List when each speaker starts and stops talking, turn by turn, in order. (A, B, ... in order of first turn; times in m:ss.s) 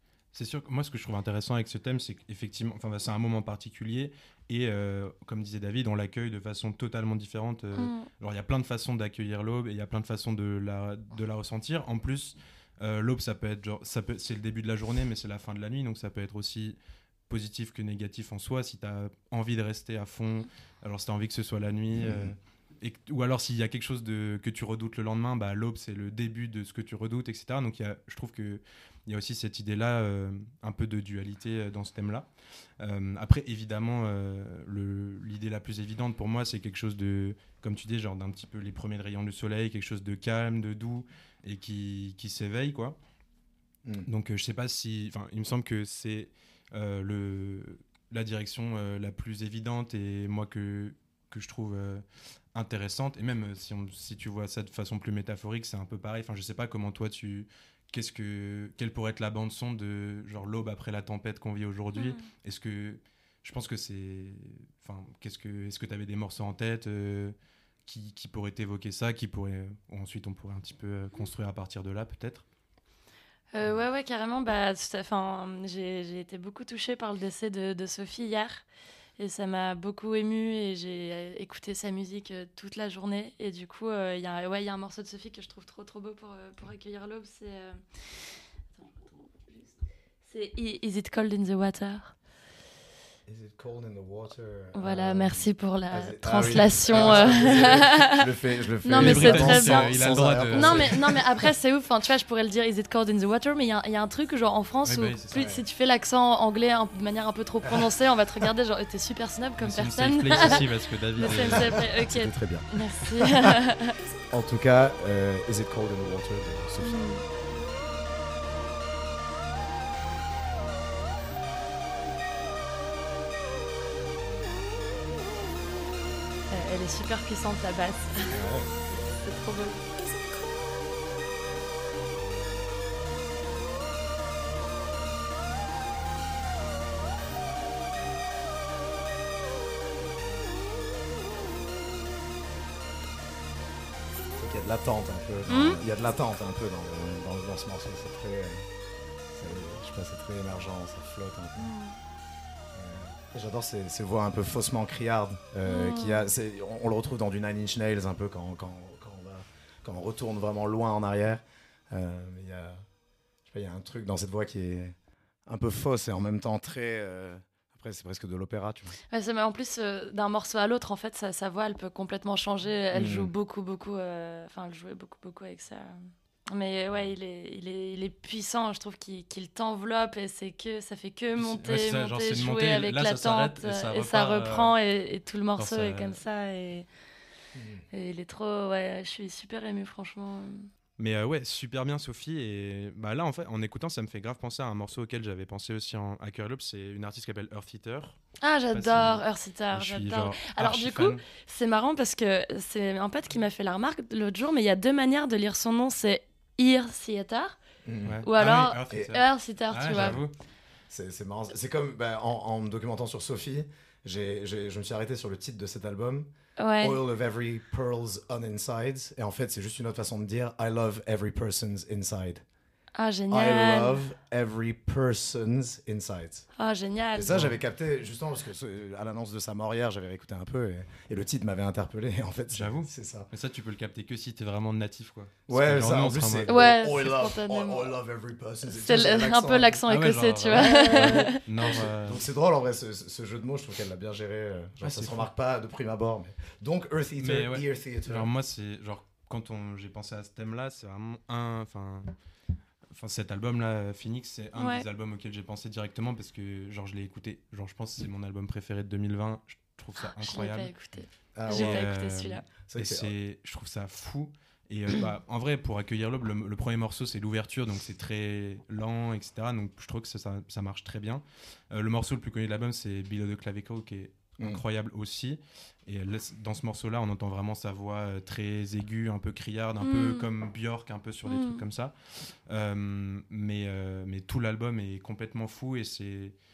0:00.3-0:32.3 A
0:07.8-0:08.1 B
0:21.9-0:22.4 C
0:32.8-0:43.0 A
0:44.1-1:12.4 A
1:02.0-1:02.2 B
1:13.5-1:18.6 B
1:19.2-1:27.8 B
1:28.8-1:29.7 B
1:30.2-1:32.1 B
1:33.3-1:41.3 C
1:34.7-1:38.2 B
1:36.9-1:37.4 A
1:38.8-1:40.0 B
1:39.0-1:41.1 A
1:40.5-1:50.6 B
1:44.8-1:45.5 A
1:45.3-1:45.6 C
1:49.6-1:51.8 A
1:50.4-1:50.6 C
1:51.2-1:54.0 B
1:51.2-1:53.6 C
1:54.3-1:57.1 C
1:56.8-1:57.2 B
2:06.5-2:08.5 B
2:08.3-2:09.2 C
2:09.2-2:09.8 B
2:24.4-2:28.7 C
2:25.5-2:25.8 B
2:29.4-2:31.7 C
2:31.6-2:32.0 B
2:32.7-2:42.8 C
2:35.6-2:36.3 B
2:43.4-2:45.0 C
2:45.5-2:49.0 C
2:49.1-3:06.9 B
2:52.9-2:53.3 C
3:01.4-3:04.7 A
3:05.6-3:06.2 A
3:07.6-3:07.8 C
3:07.9-3:10.7 B
3:11.0-3:18.2 A
3:18.4-3:27.6 B
3:18.7-3:21.2 A
3:27.8-3:28.2 C
3:28.0-3:30.3 A
3:28.2-3:30.2 B
3:28.9-3:29.2 C
3:29.9-3:30.2 C
3:30.9-3:42.4 C
3:36.6-3:37.0 B
3:43.0-3:44.0 B
3:43.3-3:46.5 C
3:46.6-3:47.5 B
3:47.2-3:53.3 C
3:52.5-3:56.6 A
3:55.5-3:59.8 C
3:56.5-3:57.9 B
3:58.7-4:01.4 B
3:59.9-4:02.2 A
4:00.5-4:08.3 C
4:04.8-4:05.3 A
4:07.2-4:12.2 A
4:12.9-4:20.7 A
4:14.6-4:14.9 B
4:20.0-4:22.4 B
4:21.4-4:21.8 C
4:21.5-4:46.4 A
4:22.6-4:23.1 C
4:39.8-4:40.3 B
4:41.3-4:41.6 B